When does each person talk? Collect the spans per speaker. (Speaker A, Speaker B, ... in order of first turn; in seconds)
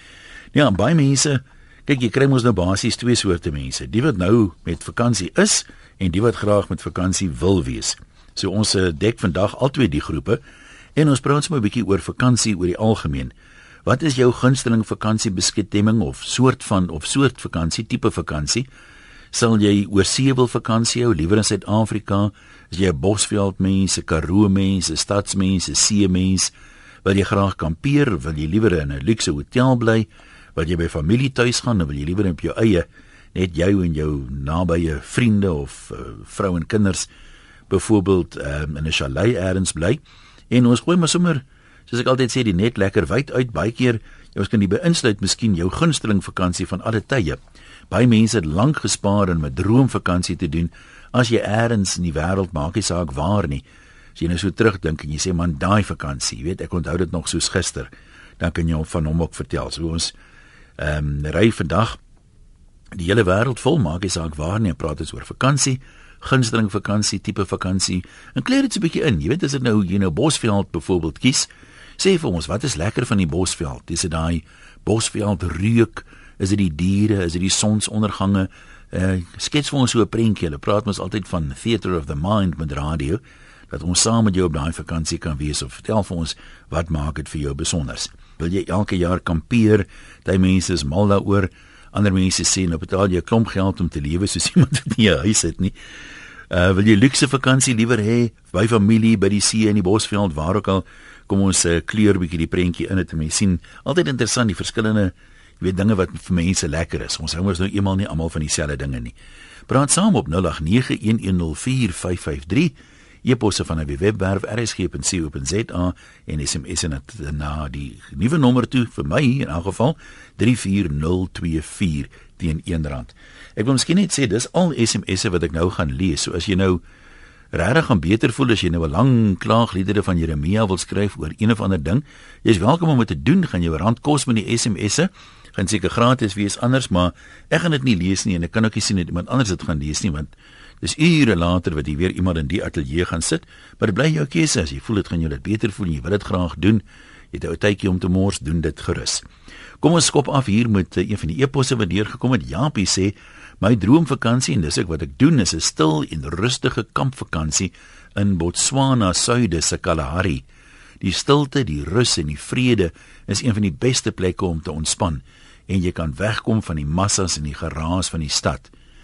Speaker A: 0.5-10.4, 11.0-13.3, 13.9-18.7, 19.3-26.5, 27.0-37.1, 37.7-47.4, 47.9-53.6, 54.2-60.1, 60.8-62.0, 62.9-95.8, 96.5-109.2, 109.7-126.8, 127.5-149.2, 149.8-160.4, 161.0-168.7